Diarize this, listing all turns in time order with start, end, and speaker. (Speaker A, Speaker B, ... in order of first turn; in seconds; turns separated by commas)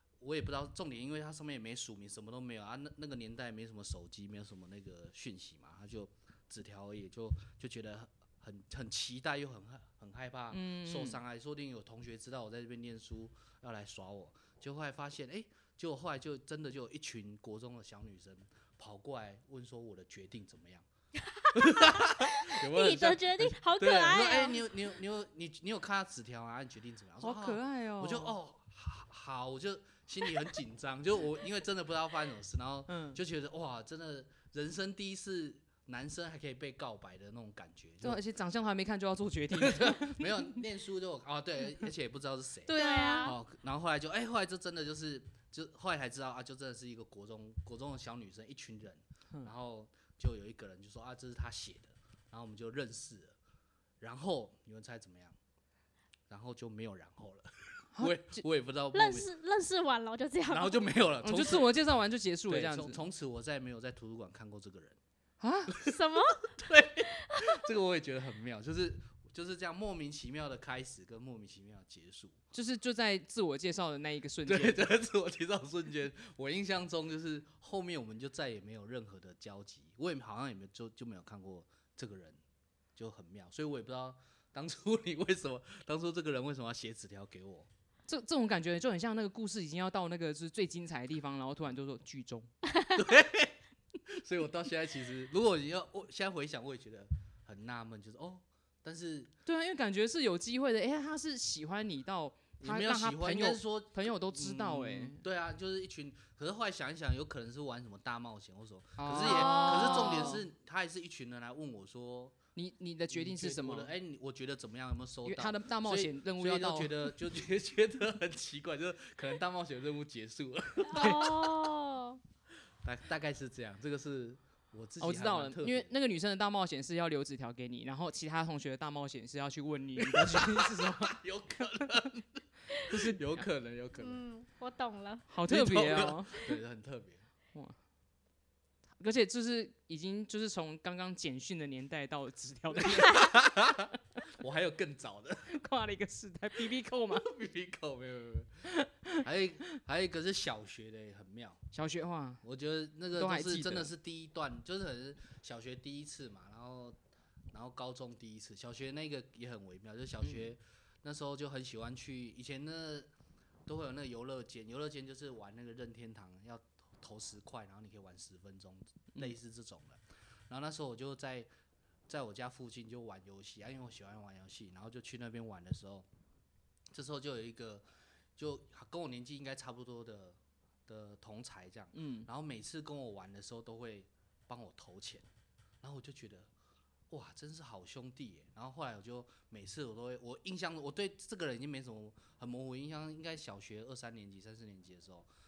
Speaker A: 0.2-20.9, Speaker B: 10.5-11.2, Speaker C: 21.3-24.7, Speaker A: 21.5-38.2, Speaker B: 27.2-28.3, Speaker B: 32.9-33.2, Speaker B: 38.0-40.6, Speaker A: 39.5-53.4, Speaker B: 42.7-43.3, Speaker C: 42.8-43.4, Speaker A: 54.0-55.4, Speaker A: 56.3-59.3, Speaker B: 57.9-58.4, Speaker C: 58.9-60.8, Speaker A: 60.5-61.7, Speaker B: 61.2-63.0, Speaker A: 62.5-65.0, Speaker B: 65.4-65.7, Speaker A: 65.7-66.0, Speaker C: 65.8-66.5, Speaker A: 66.6-72.4, Speaker C: 67.1-67.6, Speaker B: 72.5-74.9, Speaker A: 74.5-82.4, Speaker A: 83.0-87.7, Speaker B: 88.1-92.5, Speaker A: 93.0-99.3, Speaker B: 99.5-105.2, Speaker A: 102.6-112.4, Speaker B: 109.0-110.5, Speaker B: 112.6-113.9, Speaker A: 113.1-121.4, Speaker B: 115.2-117.1, Speaker C: 120.8-122.2, Speaker B: 120.9-121.3, Speaker A: 122.8-125.9, Speaker B: 125.0-131.9, Speaker A: 130.0-134.2, Speaker B: 132.8-133.2, Speaker C: 134.0-135.3, Speaker B: 135.3-136.3, Speaker A: 135.5-137.2, Speaker B: 139.0-143.2, Speaker A: 142.8-145.5, Speaker B: 145.5-147.3, Speaker A: 147.1-148.5, Speaker B: 148.7-149.2, Speaker A: 149.2-151.6, Speaker B: 151.7-152.4, Speaker A: 152.4-157.0, Speaker B: 153.2-153.9, Speaker A: 157.5-163.1, Speaker A: 163.7-171.5, Speaker A: 172.1-176.1, Speaker A: 176.9-177.8, Speaker A: 178.4-185.3, Speaker B: 181.9-182.3, Speaker A: 185.8-186.5, Speaker A: 187.1-195.3